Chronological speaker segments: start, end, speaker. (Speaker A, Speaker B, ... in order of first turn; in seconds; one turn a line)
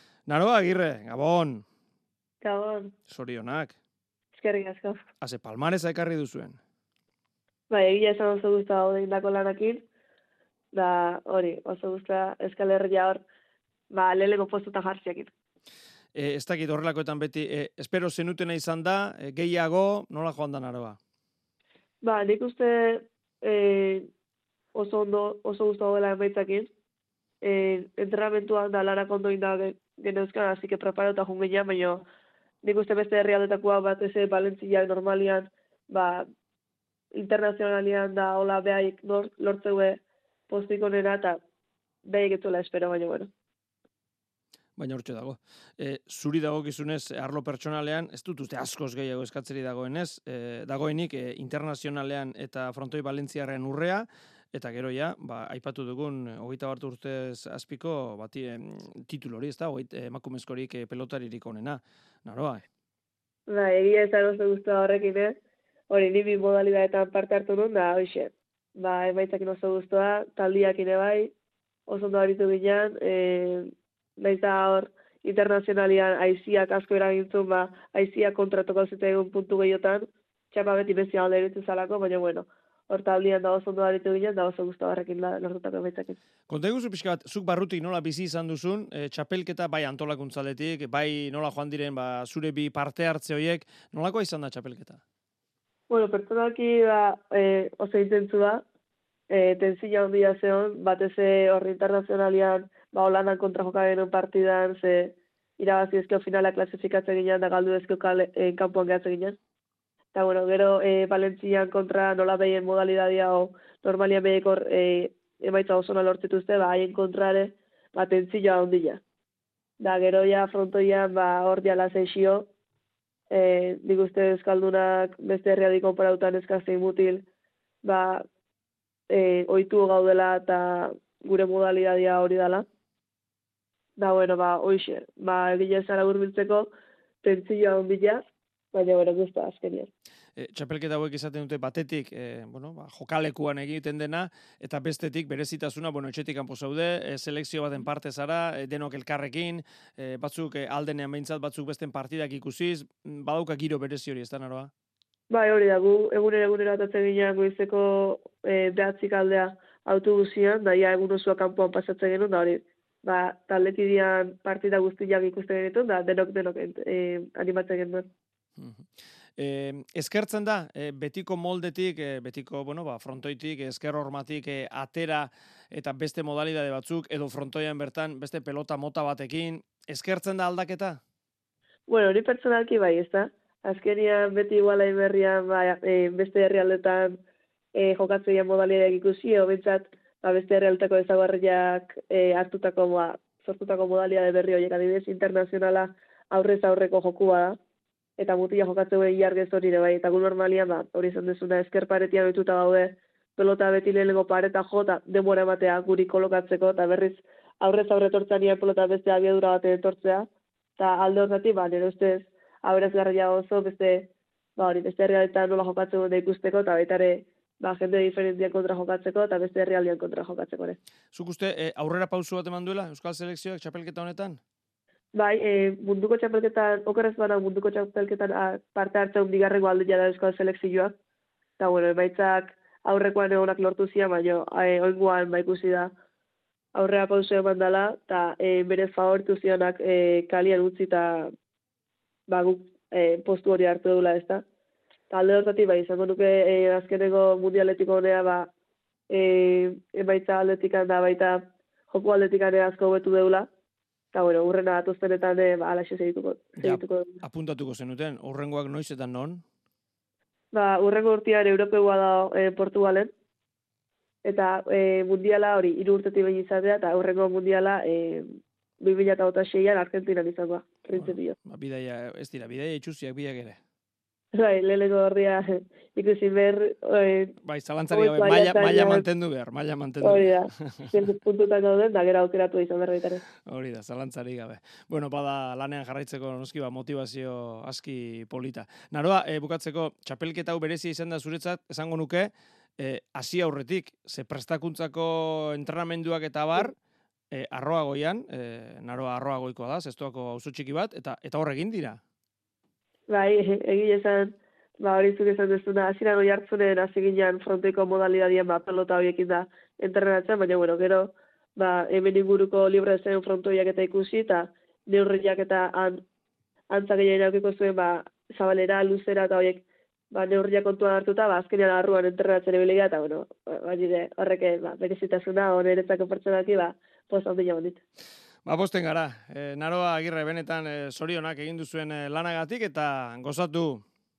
Speaker A: 0.3-1.6
Speaker B: 2.4-2.9
Speaker A: 3.1-3.7
Speaker B: 4.3-5.0
Speaker A: 5.2-6.6
Speaker B: 7.7-9.8
Speaker B: 10.7-13.2
Speaker B: 13.9-15.3
Speaker A: 16.1-21.0
Speaker B: 22.0-24.1
Speaker B: 24.7-26.7
Speaker B: 27.4-32.0
Speaker B: 32.6-36.2
Speaker B: 37.1-41.4
Speaker B: 42.1-43.3
Speaker A: 44.8-62.6
Speaker B: 63.5-65.3
Speaker B: 65.9-71.3
Speaker B: 71.9-86.2
Speaker A: 86.5-95.0
Speaker B: 95.9-98.6
Speaker B: 99.3-109.4
Speaker B: 110.1-119.0
Speaker B: 119.8-122.5
Speaker B: 123.3-127.2
Speaker B: 127.8-128.2
Speaker B: 129.1-132.6
Speaker B: 134.0-136.7
Speaker B: 137.2-138.2
Speaker B: 138.7-139.9
Speaker A: 140.4-154.7
Speaker B: 155.3-168.1
Speaker A: 168.6-181.0
Speaker B: 181.9-187.2
Speaker B: 187.7-197.6
Speaker B: 198.2-210.3
Speaker B: 210.8-220.8
Speaker A: 221.1-224.4
Speaker B: 225.2-230.9
Speaker B: 231.6-235.9
Speaker B: 236.7-241.3
Speaker B: 242.3-244.4
Speaker B: 245.1-248.5
Speaker B: 249.1-251.4
Speaker B: 251.9-253.5
Speaker B: 254.1-257.2
Speaker A: 256.6-259.4
Speaker B: 260.5-263.1
Speaker B: 264.2-271.3
Speaker A: 270.9-273.6
Speaker B: 274.3-277.3
Speaker A: 277.4-280.9
Speaker B: 277.9-279.1
Speaker B: 280.0-283.2
Speaker A: 283.4-296.7
Speaker A: 297.3-302.0
Speaker B: 303.1-316.0
Speaker B: 316.7-327.8
Speaker A: 328.4-333.8